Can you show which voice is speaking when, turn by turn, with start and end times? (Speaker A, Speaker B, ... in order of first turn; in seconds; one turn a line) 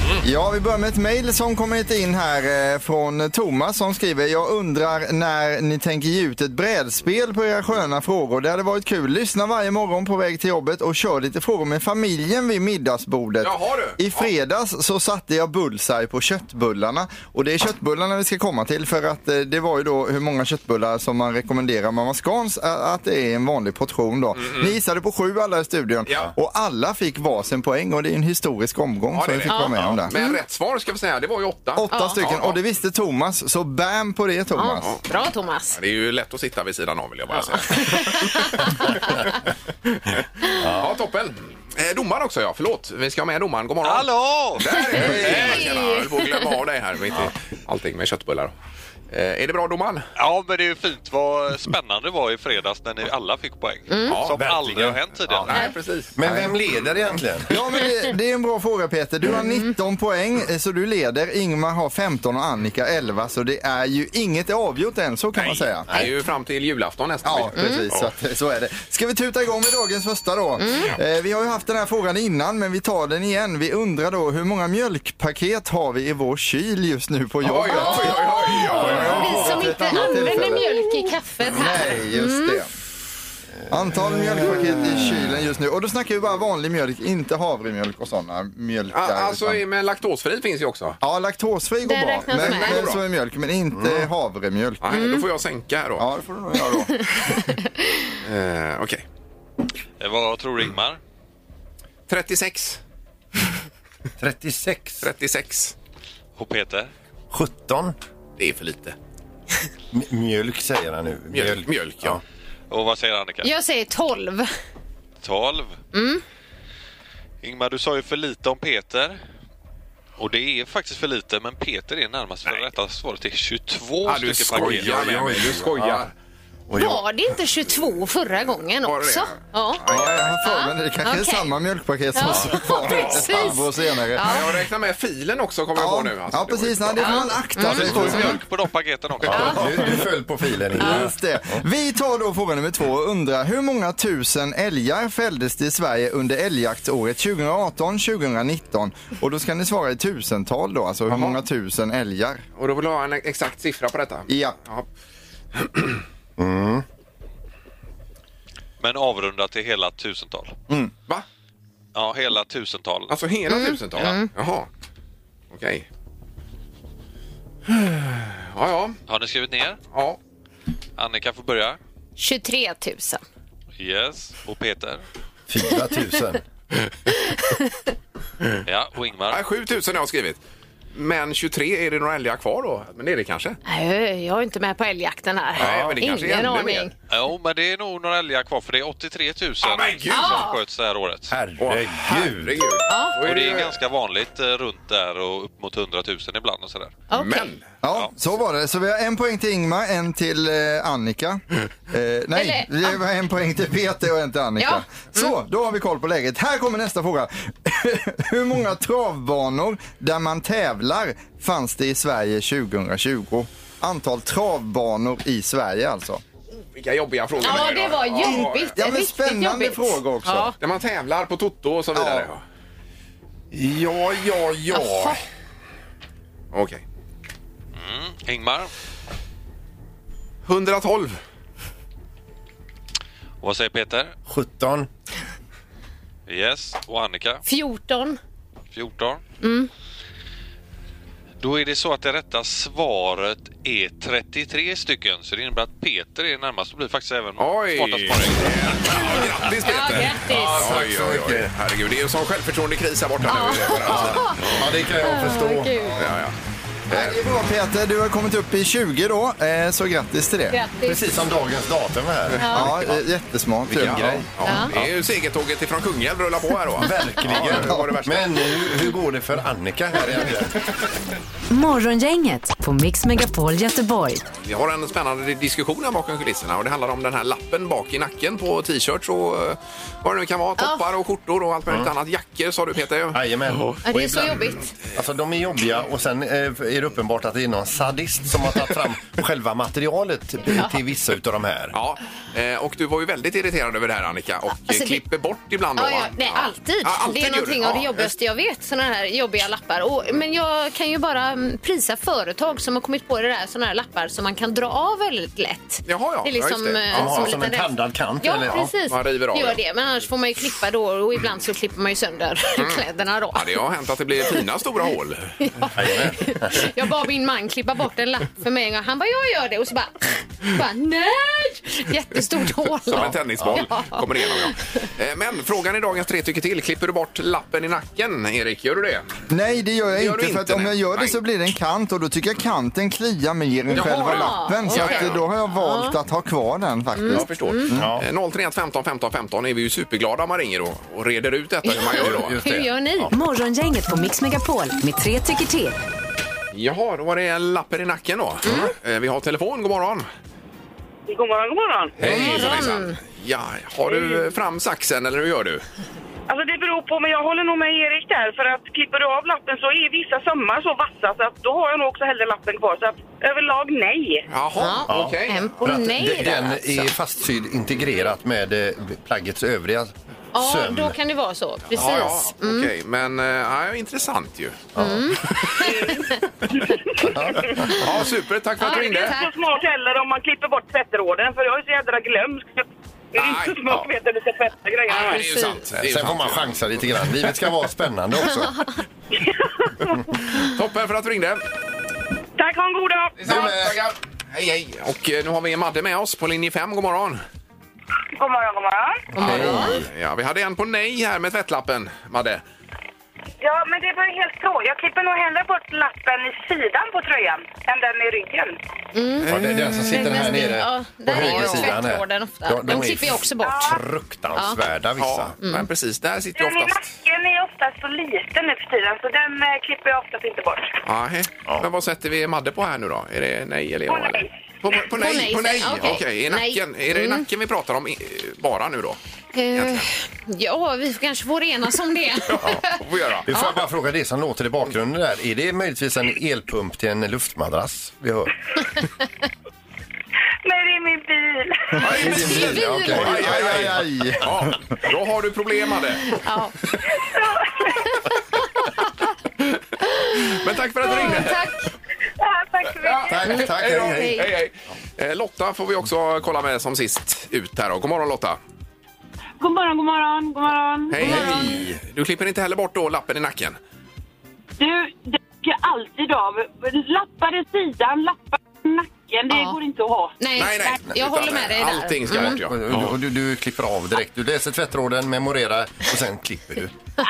Speaker A: 0.2-30.1
Speaker B: 13.4-14.3
Speaker B: 24.4-24.7
Speaker B: 29.1-32.6
Speaker C: 29.5-30.4
Speaker A: 31.8-34.9
Speaker C: 31.9-32.2
Speaker C: 34.5-35.8
Speaker B: 35.7-48.5
Speaker C: 37.6-39.1
Speaker D: 40.6-40.9
Speaker E: 43.8-45.8
Speaker C: 44.8-46.5
Speaker B: 49.1-50.1
Speaker E: 50.2-55.7
Speaker C: 53.9-54.2
Speaker B: 54.1-54.4
Speaker D: 54.4-55.5
Speaker B: 55.3-56.5
Speaker D: 56.1-57.5
Speaker A: 57.5-65.9
Speaker C: 59.3-59.6
Speaker B: 65.3-68.1
Speaker A: 67.2-82.7
Speaker C: 67.5-67.8
Speaker C: 70.6-70.9
Speaker B: 77.4-79.6
Speaker C: 77.7-82.6
Speaker D: 78.8-79.4
Speaker A: 83.7-89.6
Speaker D: 83.9-85.3
Speaker B: 88.9-91.0
Speaker A: 91.0-94.8
Speaker C: 91.8-92.9
Speaker B: 92.3-93.0
Speaker D: 93.7-94.1
Speaker B: 94.8-96.1
Speaker C: 94.9-95.2
Speaker A: 96.0-97.4
Speaker C: 97.0-98.0
Speaker B: 98.2-99.0
Speaker E: 100.0-101.0
Speaker B: 102.1-102.8
Speaker D: 104.2-105.1
Speaker B: 105.0-105.7
Speaker E: 106.3-106.9
Speaker D: 107.3-108.0
Speaker B: 108.4-109.0
Speaker D: 109.9-112.2
Speaker B: 111.3-112.2
Speaker E: 112.7-113.5
Speaker C: 113.4-114.5
Speaker E: 115.2-115.8
Speaker C: 115.9-116.2
Speaker E: 117.4-119.2
Speaker E: 120.2-125.0
Speaker B: 124.0-126.1
Speaker D: 124.5-126.1
Speaker D: 126.7-127.0
Speaker C: 126.7-129.8
Speaker B: 128.8-130.4
Speaker A: 129.9-134.5
Speaker C: 130.4-131.5
Speaker C: 132.1-134.5
Speaker D: 133.0-133.3
Speaker B: 134.2-137.3
Speaker A: 135.7-138.4
Speaker C: 137.0-138.3
Speaker E: 137.6-140.0
Speaker D: 139.2-141.6
Speaker C: 139.3-139.8
Speaker A: 140.8-152.4
Speaker C: 140.8-141.0
Speaker B: 151.1-151.4
Speaker B: 152.6-154.8
Speaker A: 154.3-154.6
Speaker B: 155.5-156.0
Speaker D: 156.4-156.8
Speaker E: 158.8-160.6
Speaker E: 161.9-163.1
Speaker B: 163.1-164.7
Speaker C: 163.5-164.3
Speaker B: 165.5-165.8
Speaker B: 167.7-169.0
Speaker E: 169.1-169.8
Speaker B: 169.9-170.2
Speaker E: 171.0-171.8
Speaker C: 172.2-173.2
Speaker E: 173.8-175.0
Speaker D: 175.5-176.4
Speaker C: 177.3-177.8
Speaker E: 178.6-179.4
Speaker B: 179.3-180.4
Speaker B: 180.9-183.6
Speaker C: 183.6-186.9
Speaker B: 185.6-186.9
Speaker D: 185.6-186.0
Speaker E: 187.1-191.4
Speaker B: 189.6-190.4
Speaker C: 190.1-190.6
Speaker D: 191.3-192.6
Speaker B: 191.6-193.7
Speaker C: 192.9-193.1
Speaker E: 193.2-197.0
Speaker C: 197.1-197.5
Speaker B: 197.1-197.6
Speaker A: 197.8-216.2
Speaker C: 202.3-203.0
Speaker C: 204.6-205.3
Speaker B: 216.5-218.7
Speaker C: 217.4-220.6
Speaker A: 218.2-220.5
Speaker B: 220.6-222.4
Speaker A: 221.9-222.3
Speaker D: 223.5-225.1
Speaker C: 224.7-225.2
Speaker B: 226.5-226.8
Speaker E: 227.8-228.7
Speaker B: 230.4-231.2
Speaker E: 233.4-234.1
Speaker D: 234.3-234.9
Speaker E: 236.3-237.4
Speaker C: 237.4-238.2
Speaker E: 238.7-239.2
Speaker C: 239.4-239.7
Speaker E: 241.4-249.3
Speaker B: 247.4-254.7
Speaker C: 249.6-250.6
Speaker D: 250.2-251.5
Speaker C: 253.2-256.0
Speaker D: 253.6-255.9
Speaker B: 256.0-256.3
Speaker B: 256.9-257.2
Speaker A: 256.9-260.6
Speaker C: 260.5-261.0
Speaker D: 260.8-263.0
Speaker C: 262.4-262.7
Speaker A: 262.5-264.2
Speaker D: 263.7-264.9
Speaker B: 263.8-268.8
Speaker C: 264.4-264.7
Speaker D: 266.8-270.6
Speaker A: 267.5-267.9
Speaker F: 271.5-274.2
Speaker B: 274.4-283.8
Speaker D: 283.1-291.7
Speaker C: 283.8-284.7
Speaker C: 290.5-290.8
Speaker B: 291.7-298.1
Speaker C: 294.6-295.0
Speaker C: 295.8-313.6
Speaker B: 305.9-307.3
Speaker D: 306.9-308.7
Speaker B: 308.9-309.6
Speaker B: 312.6-315.5
Speaker C: 315.4-324.6
Speaker D: 315.7-316.7
Speaker B: 322.8-329.1
Speaker D: 322.9-323.7
Speaker A: 329.3-337.8
Speaker B: 329.9-331.2
Speaker B: 333.7-335.3
Speaker C: 333.7-335.9
Speaker C: 336.9-337.8
Speaker B: 337.1-342.6
Speaker D: 337.7-338.1
Speaker C: 341.6-343.1
Speaker D: 341.9-343.1
Speaker F: 343.1-345.8
Speaker B: 346.5-350.1
Speaker C: 348.4-348.7
Speaker G: 351.1-351.9
Speaker B: 352.0-355.6
Speaker C: 352.0-353.0
Speaker G: 353.9-354.2
Speaker G: 356.3-364.2
Speaker B: 364.3-365.4
Speaker C: 364.6-366.9
Speaker D: 364.9-371.0
Speaker C: 370.3-372.7
Speaker D: 371.7-372.1
Speaker B: 371.7-374.7
Speaker D: 374.7-375.2
Speaker C: 374.8-376.2
Speaker B: 375.3-375.7
Speaker D: 377.0-377.9
Speaker B: 377.6-379.2
Speaker C: 378.6-379.3
Speaker G: 378.6-385.4
Speaker B: 383.2-383.6
Speaker C: 384.9-385.6
Speaker B: 384.9-386.8
Speaker D: 385.7-388.6
Speaker B: 390.3-391.4
Speaker G: 392.4-393.2
Speaker B: 393.2-397.2
Speaker D: 393.2-393.8
Speaker G: 398.1-399.1
Speaker D: 399.1-399.9
Speaker C: 399.1-399.8
Speaker B: 399.2-402.4
Speaker G: 403.4-408.6
Speaker C: 408.9-413.8
Speaker D: 409.2-415.3
Speaker B: 409.3-409.6
Speaker G: 413.4-413.8
Speaker B: 415.0-416.9
Speaker C: 415.4-415.7
Speaker G: 416.3-420.8
Speaker B: 420.8-429.0
Speaker G: 423.9-424.3
Speaker C: 424.9-427.2
Speaker C: 429.3-433.6
Speaker B: 429.5-429.9
Speaker B: 432.3-433.3
Speaker D: 433.2-438.3
Speaker G: 440.4-441.8
Speaker B: 441.8-446.2
Speaker D: 441.9-443.6
Speaker C: 442.1-443.1
Speaker A: 442.9-444.5
Speaker C: 446.1-446.6
Speaker G: 446.9-447.8
Speaker C: 448.4-448.9
Speaker C: 449.9-451.7
Speaker B: 450.2-451.5
Speaker B: 452.8-458.4
Speaker D: 453.1-454.3
Speaker C: 453.3-454.3
Speaker H: 459.4-461.5
Speaker B: 460.9-463.6
Speaker C: 461.0-461.6
Speaker D: 461.1-461.6
Speaker H: 464.6-470.8
Speaker C: 469.3-469.6
Speaker C: 470.2-472.4
Speaker B: 470.4-472.9
Speaker D: 472.2-476.7